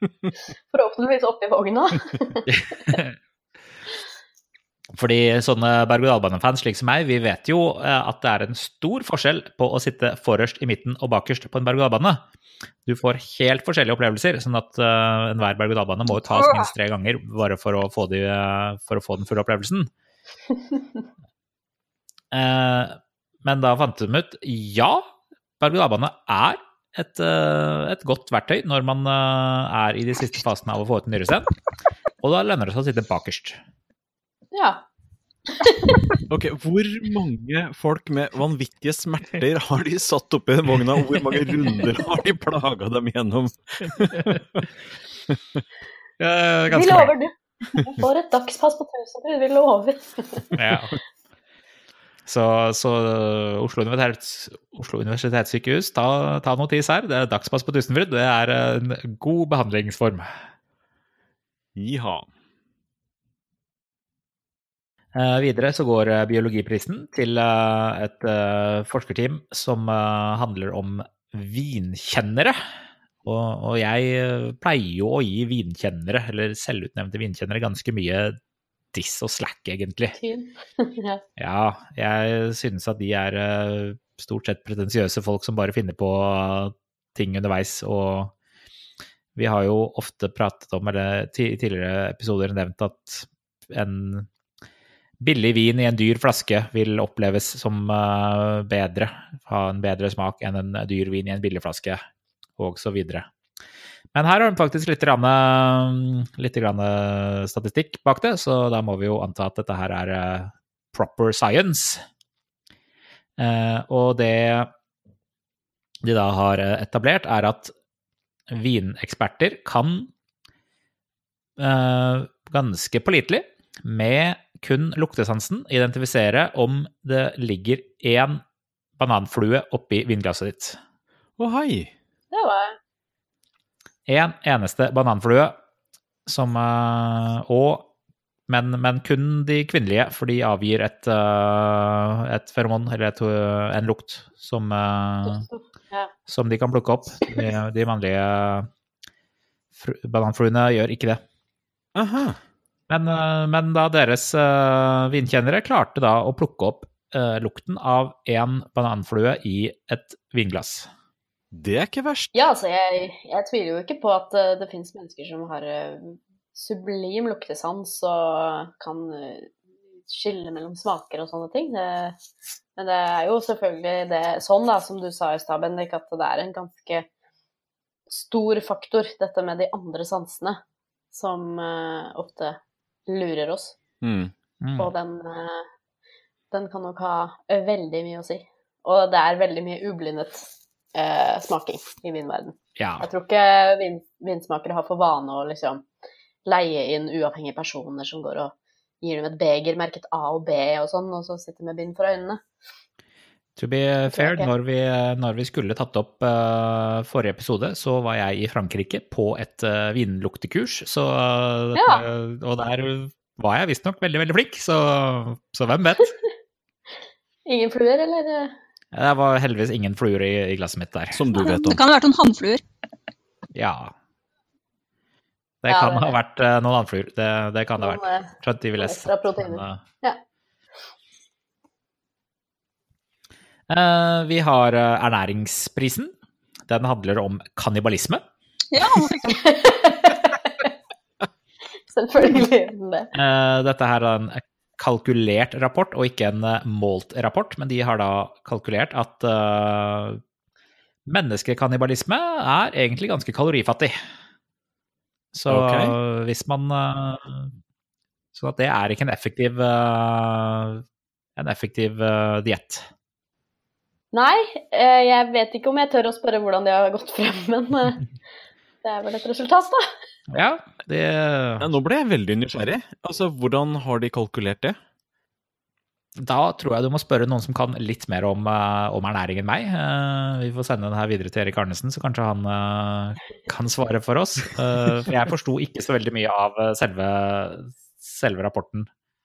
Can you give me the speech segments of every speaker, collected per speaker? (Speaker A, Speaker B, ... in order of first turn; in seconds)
Speaker A: 0.7-2.5, 34.5-34.8, 35.5-36.1, 46.7-50.5, 80.2-81.2, 132.3-132.8, 145.2-146.1, 162.3-169.5, 170.1-172.2, 172.8-177.1, 178.1-180.6, 181.1-183.8, 184.8-185.6, 186.5-195.8, 196.4-202.4, 204.1-204.5, 211.7-212.0, 217.4-218.5, 225.7-226.1, 227.8-230.2, 239.2-240.7, 241.9-243.1, 264.1-268.1, 268.8-269.9
Speaker B: 2.5-3.1, 4.9-12.2, 12.8-19.9, 22.3-25.1, 25.6-31.5, 32.2-33.6, 46.2-47.1, 50.5-51.0, 52.2-60.3, 65.1-72.6, 73.2-78.4, 78.9-80.2, 81.4-88.3, 89.3-94.3, 95.2-102.0, 102.6-103.3, 104.1-112.0, 113.4-114.7, 116.0-117.7, 118.5-120.1, 121.6-128.4, 129.0-130.8, 134.1-135.6, 136.2-137.9, 138.5-145.5, 146.3-148.7, 149.8-151.2, 152.9-160.9, 184.6-184.9, 192.8-193.1, 203.6-216.1, 218.9-221.2, 223.5-223.9, 225.6-229.8, 233.7-236.1, 236.7-238.2, 243.1-250.2, 251.1-253.9, 255.3-257.5, 258.3-260.8, 261.4-262.9, 270.3-271.7, 276.2-288.9
Speaker C: 16.3-16.7, 221.3-222.6, 238.7-239.5
Speaker D: 36.3-44.7, 45.3-45.6, 61.8-62.3, 131.4-131.9, 151.9-152.4, 161.5-162.3, 184.0-184.3, 221.1-221.8, 255.5-255.9, 271.6-274.8